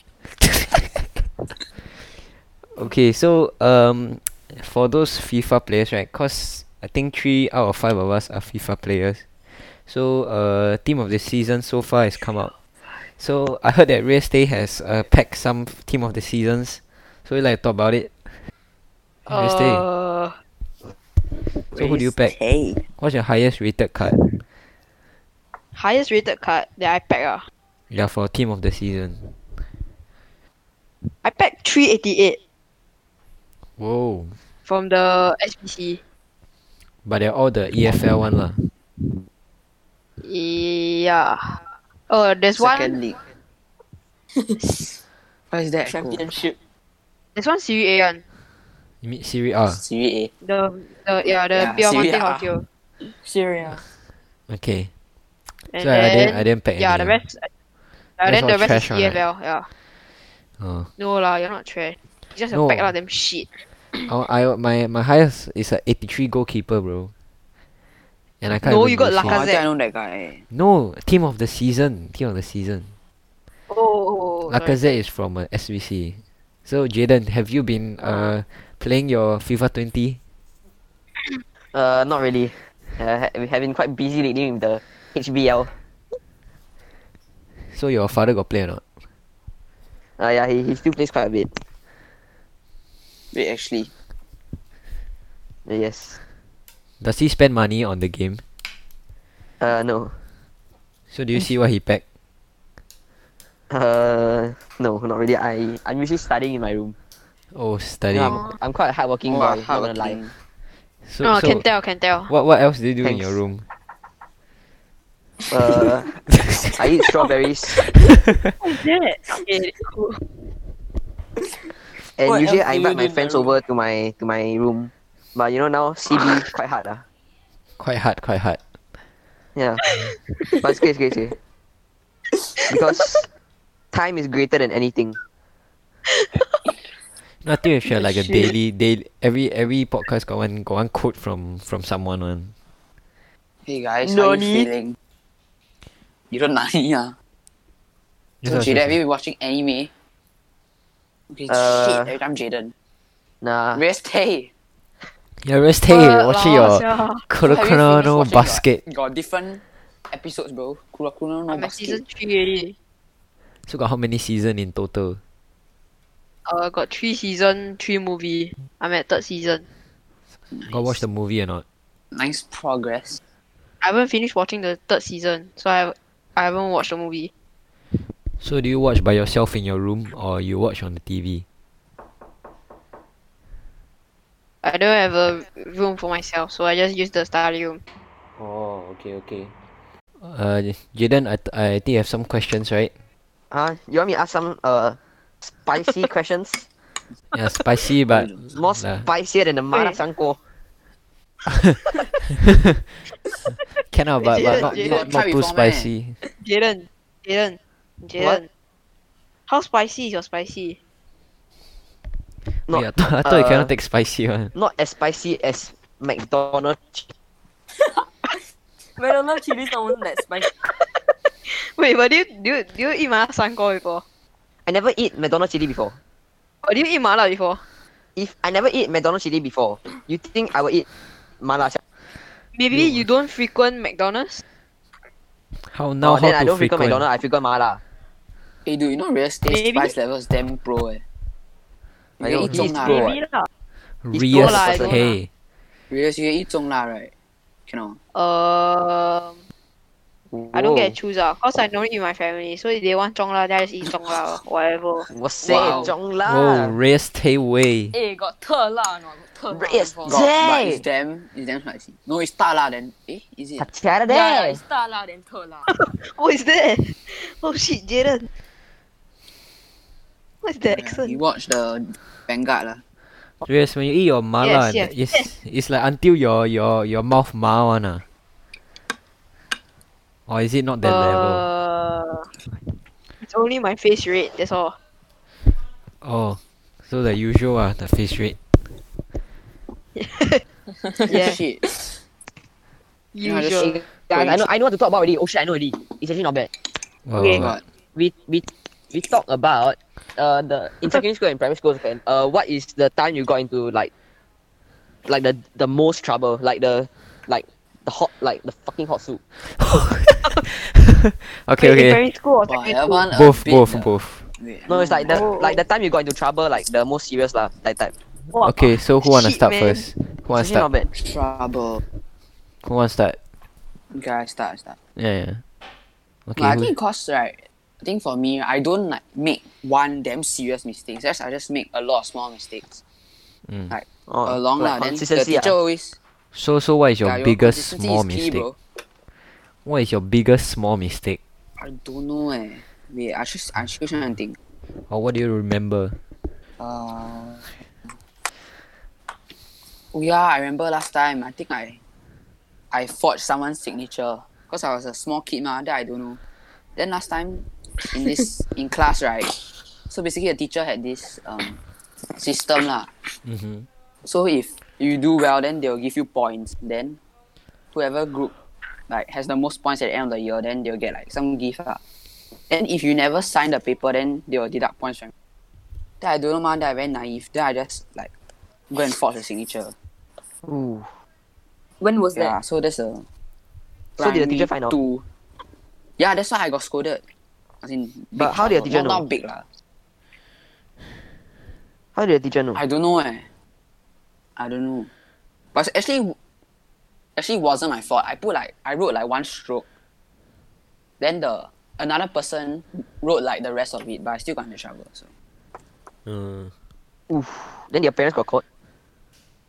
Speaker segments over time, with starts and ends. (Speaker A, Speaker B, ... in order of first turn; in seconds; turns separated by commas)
Speaker A: 0.3-1.3, Speaker A: 2.7-18.5, Speaker B: 19.2-20.4, Speaker A: 19.3-19.8, Speaker C: 21.7-22.8, Speaker A: 21.7-22.3, Speaker A: 22.9-24.3, Speaker B: 25.7-27.5, Speaker A: 27.9-29.6, Speaker B: 31.0-32.4, Speaker A: 33.8-34.4, Speaker B: 34.6-36.0, Speaker A: 37.0-38.6, Speaker B: 40.2-43.0, Speaker C: 42.5-43.3, Speaker D: 44.4-44.6, Speaker C: 45.5-46.3, Speaker D: 45.8-46.5, Speaker B: 47.3-48.2, Speaker A: 49.0-49.8, Speaker C: 49.7-50.3, Speaker B: 50.4-52.6, Speaker C: 51.5-52.5, Speaker D: 53.1-53.8, Speaker A: 54.5-54.9, Speaker B: 55.7-57.5, Speaker A: 55.8-57.2, Speaker B: 58.2-59.7, Speaker A: 58.2-59.2, Speaker A: 60.6-60.9, Speaker B: 61.0-64.0, Speaker A: 62.5-62.9, Speaker A: 64.1-67.1, Speaker A: 68.4-69.5, Speaker B: 68.6-69.7, Speaker C: 69.2-70.4, Speaker A: 70.5-72.9, Speaker B: 73.7-75.0, Speaker A: 74.4-80.2, Speaker B: 78.0-78.3, Speaker E: 81.6-85.7, Speaker A: 87.7-88.8, Speaker E: 90.2-91.6, Speaker C: 93.3-93.9, Speaker E: 95.7-96.2, Speaker A: 97.0-98.4, Speaker E: 99.6-100.2, Speaker A: 101.1-102.0, Speaker E: 103.7-107.0, Speaker A: 107.5-108.4, Speaker E: 108.1-110.2, Speaker B: 108.3-108.5, Speaker C: 109.2-110.3, Speaker A: 111.0-111.7, Speaker B: 111.2-112.3, Speaker A: 112.3-113.7, Speaker E: 113.0-113.4, Speaker E: 115.5-117.8, Speaker A: 116.3-116.8, Speaker B: 118.6-120.3, Speaker E: 122.2-127.0, Speaker D: 122.2-123.5, Speaker A: 127.8-128.6, Speaker E: 129.5-129.9, Speaker B: 130.0-130.6, Speaker E: 130.6-131.3, Speaker E: 132.6-133.3, Speaker E: 133.9-135.2, Speaker A: 137.4-142.5, Speaker C: 143.6-145.0, Speaker E: 144.0-144.7, Speaker C: 146.3-147.1, Speaker A: 148.4-149.0, Speaker C: 148.4-149.9, Speaker C: 151.3-152.7, Speaker E: 151.5-152.2, Speaker E: 153.4-153.8, Speaker C: 153.7-154.5, Speaker A: 155.4-158.8, Speaker B: 155.9-157.3, Speaker C: 157.4-162.0, Speaker B: 161.5-162.7, Speaker A: 163.6-165.2, Speaker B: 166.4-169.6, Speaker C: 170.5-171.0, Speaker A: 170.7-171.6, Speaker C: 172.1-173.2, Speaker B: 173.8-177.3, Speaker A: 178.4-181.4, Speaker B: 184.6-187.8, Speaker A: 188.4-189.5, Speaker A: 190.2-192.9, Speaker E: 193.5-196.6, Speaker A: 197.3-199.1, Speaker C: 198.1-198.4, Speaker E: 198.5-200.4, Speaker B: 199.7-200.0, Speaker A: 203.9-206.2, Speaker B: 204.2-205.1, Speaker C: 204.3-205.9, Speaker B: 206.4-208.4, Speaker E: 208.2-208.4, Speaker B: 209.5-210.8, Speaker E: 212.7-213.7, Speaker A: 212.7-214.5, Speaker E: 214.5-217.1, Speaker D: 219.0-220.5, Speaker B: 220.6-224.0, Speaker E: 224.7-226.0, Speaker B: 226.6-227.6, Speaker E: 228.2-230.9, Speaker E: 231.4-231.8, Speaker B: 232.5-234.4, Speaker A: 235.5-237.1, Speaker E: 236.0-237.8, Speaker C: 238.7-241.0, Speaker B: 239.4-239.9, Speaker E: 242.2-243.1, Speaker C: 242.2-243.2, Speaker B: 242.5-243.5, Speaker A: 244.0-245.3, Speaker B: 244.1-245.2, Speaker E: 244.3-245.0, Speaker C: 245.9-247.1, Speaker C: 247.7-248.0, Speaker B: 248.1-249.4, Speaker E: 250.3-250.9, Speaker B: 250.5-255.1, Speaker E: 255.1-256.8, Speaker C: 255.4-255.9, Speaker A: 256.2-257.9, Speaker D: 257.9-260.2, Speaker C: 259.6-263.7, Speaker E: 259.7-260.8, Speaker E: 263.6-264.6, Speaker D: 264.1-265.7, Speaker B: 265.6-268.3, Speaker B: 270.4-271.2, Speaker C: 270.6-272.8, Speaker A: 273.4-278.0, Speaker B: 274.4-275.3, Speaker A: 280.3-281.4, Speaker B: 280.8-284.8, Speaker A: 286.0-288.7, Speaker B: 289.9-290.4, Speaker C: 291.0-291.9, Speaker B: 291.1-291.4, Speaker B: 293.1-293.7, Speaker C: 293.2-294.4, Speaker E: 293.6-296.5, Speaker A: 297.1-297.6, Speaker B: 297.1-297.4, Speaker C: 297.3-297.6, Speaker E: 297.9-303.9, Speaker E: 305.1-309.2, Speaker A: 309.4-312.0, Speaker B: 311.6-313.1, Speaker C: 312.5-315.3, Speaker A: 313.1-314.3, Speaker E: 314.7-317.9, Speaker B: 315.1-315.6, Speaker B: 318.3-319.9, Speaker A: 318.4-320.7, Speaker E: 320.3-320.9, Speaker C: 320.9-321.8, Speaker A: 322.6-323.2, Speaker C: 323.9-324.8, Speaker A: 324.9-325.4, Speaker A: 326.3-326.7, Speaker C: 326.4-332.8, Speaker A: 333.4-333.7, Speaker C: 333.7-336.0, Speaker E: 334.1-335.5, Speaker A: 336.3-338.5, Speaker C: 337.0-338.6, Speaker A: 339.6-341.2, Speaker C: 341.6-344.4, Speaker A: 344.8-346.0, Speaker C: 346.6-347.6, Speaker C: 349.9-351.8, Speaker C: 352.7-356.2, Speaker C: 356.8-363.1, Speaker A: 363.2-363.7, Speaker C: 364.0-367.0, Speaker C: 367.7-368.3, Speaker C: 368.9-371.8, Speaker C: 372.5-375.1, Speaker C: 376.0-378.1, Speaker C: 378.7-379.7, Speaker E: 380.4-380.9, Speaker D: 381.8-382.4, Speaker C: 382.1-383.1, Speaker E: 384.0-384.7, Speaker C: 384.0-385.0, Speaker C: 386.0-387.0, Speaker C: 387.6-389.4, Speaker E: 388.1-389.0, Speaker E: 391.9-392.6, Speaker C: 392.5-393.3, Speaker C: 394.4-394.9, Speaker C: 395.5-396.1, Speaker C: 397.1-399.6, Speaker C: 401.0-405.1, Speaker A: 406.1-406.5, Speaker E: 407.1-408.4